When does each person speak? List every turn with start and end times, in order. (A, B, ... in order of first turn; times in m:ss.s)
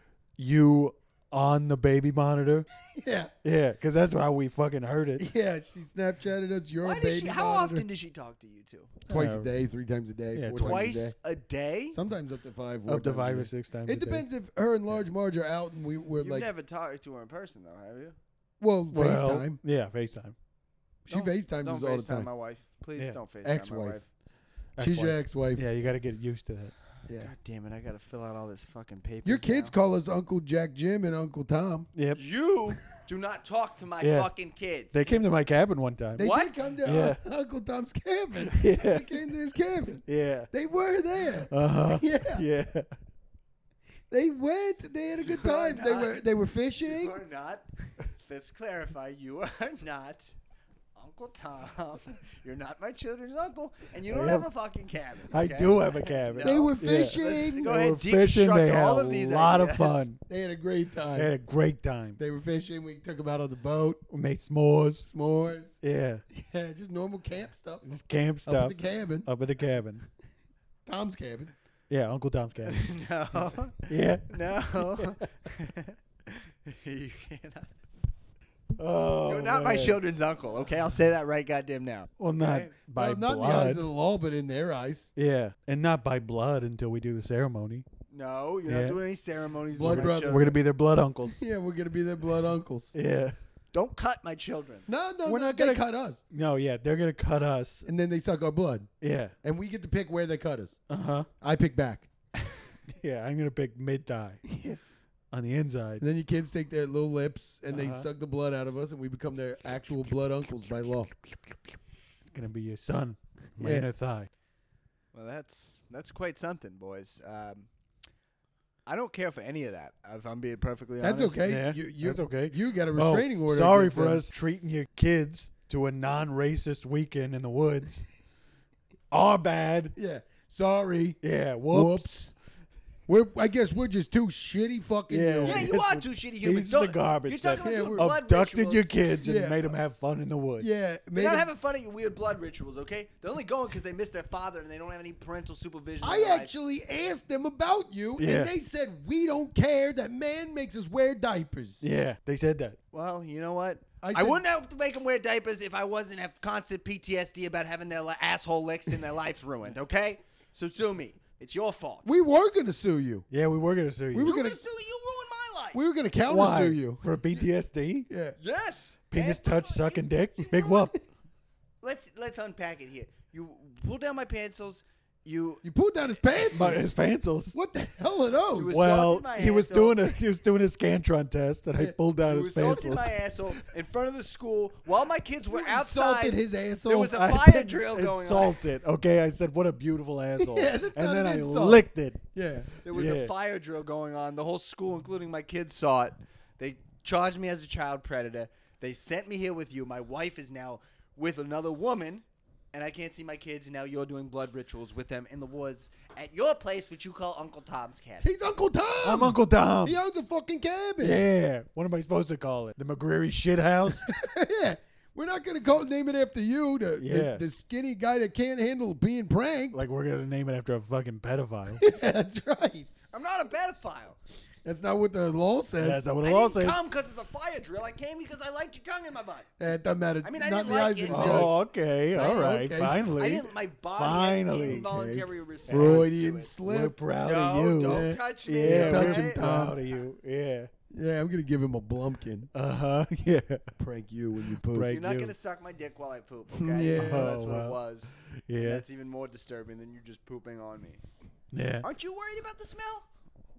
0:00.4-0:02.7 A
0:02.8-0:03.3 B
0:03.4-0:05.3 A
0:05.2-0:07.8 B
0:06.8-0:09.0 C
0:09.1-0:11.2 B
0:09.1-0:09.5 A
0:10.3-0:11.0 A
0:10.6-0:12.0 C
0:11.9-0:16.5 B
0:12.9-0:14.2 A
0:16.2-0:18.2 C
0:18.6-0:19.6 B
0:18.9-0:20.3 A
0:21.0-0:22.3 B
0:21.1-0:24.0 C
0:23.4-0:24.0 B
0:24.8-0:26.7 A
0:24.8-0:25.6 B
0:27.1-0:27.3 B
0:27.1-0:29.7 C
0:29.2-0:31.9 B
0:31.9-0:32.2 A
0:32.1-0:35.2 C
0:34.0-0:34.3 A
0:34.9-0:36.2 A
0:36.2-0:42.4 B
0:36.2-0:36.6 C
0:36.8-0:37.2 A
0:38.5-0:39.2 A
0:40.0-0:40.5 A
0:41.5-0:42.9 A
0:44.1-0:47.2 B
0:45.2-0:46.2 C
0:46.8-0:50.3 C
0:51.0-1:00.0 C
0:54.0-0:54.5 A
0:55.3-1:00.2 A
0:56.4-0:57.7 B
1:00.3-1:01.3 B
1:01.1-1:02.2 A
1:02.2-1:04.0 B
1:04.1-1:05.1 A
1:05.0-1:07.9 B
1:05.8-1:06.2 A
1:07.8-1:10.0 A
1:08.4-1:09.3 B
1:10.8-1:11.5 B
1:11.9-1:12.9 A
1:12.7-1:17.7 C
1:13.9-1:15.2 A
1:18.8-1:20.0 A
1:19.2-1:22.7 C
1:22.2-1:23.8 A
1:22.9-1:25.1 B
1:25.2-1:27.9 A
1:28.1-1:30.5 C
1:28.6-1:29.0 A
1:29.7-1:30.6 B
1:29.8-1:31.4 A
1:31.3-1:32.9 B
1:32.9-1:33.4 A
1:33.7-1:34.8 C
1:34.9-1:36.2 B
1:35.2-1:37.9 A
1:37.8-1:38.9 B
1:39.0-1:39.3 A
1:39.4-1:40.8 B
1:40.9-1:41.3 A
1:41.4-1:42.1 B
1:42.9-1:44.4 A
1:44.4-1:44.8 B
1:45.3-1:46.0 A
1:46.0-1:51.1 B
1:47.7-1:48.1 A
1:52.3-1:54.3 A
1:53.6-1:53.9 B
1:55.1-1:57.7 C
1:58.8-2:01.5 C
2:01.0-2:04.3 B
2:01.4-2:08.0 A
2:09.1-2:09.9 A
2:09.9-2:12.3 B
2:11.2-2:12.1 A
2:13.1-2:15.8 B
2:15.1-2:20.7 A
2:15.4-2:19.0 C
2:17.6-2:18.1 B
2:19.2-2:19.8 B
2:20.6-2:21.5 B
2:21.1-2:26.5 C
2:26.0-2:31.9 B
2:28.2-2:28.5 A
2:31.8-2:32.8 A
2:32.9-2:42.1 C
2:34.0-2:34.4 B
2:42.0-2:43.2 B
2:43.3-2:44.3 A
2:44.1-2:44.6 B
2:44.2-2:45.8 C
2:45.7-2:47.0 B
2:46.3-2:48.1 A
2:48.1-2:48.4 B
2:48.4-2:50.9 C
2:49.1-2:51.0 A
2:51.8-2:55.6 C
2:55.6-2:57.0 B
2:56.5-2:57.6 A
2:57.5-2:58.8 B
2:58.5-3:00.1 C
2:58.7-3:03.6 A
3:02.2-3:08.6 C
3:05.5-3:07.2 B
3:07.1-3:12.2 A
3:10.4-3:12.7 B
3:12.8-3:13.3 A
3:12.8-3:28.3 C
3:28.2-3:31.2 B
3:29.0-3:30.0 A
3:31.0-3:34.1 A
3:33.9-3:39.8 B
3:37.0-3:37.4 A
3:39.7-3:41.8 A
3:41.8-3:43.0 B
3:43.1-3:44.2 C
3:44.6-3:46.1 B
3:45.8-3:46.8 A
3:46.2-3:49.5 C
3:49.6-3:51.6 B
3:50.2-3:51.5 C
3:51.1-3:54.9 A
3:52.1-3:53.1 B
3:53.2-3:56.5 C
3:54.6-3:57.0 B
3:55.7-3:56.1 A
3:56.6-4:00.7 A
3:57.2-3:59.4 C
3:57.8-3:59.8 B
4:00.9-4:02.5 B
4:02.5-4:03.7 A
4:03.8-4:04.9 B
4:04.6-4:05.3 A
4:04.9-4:11.0 C
4:06.5-4:07.3 B
4:06.9-4:08.8 A
4:11.5-4:11.8 A
4:11.8-4:13.0 C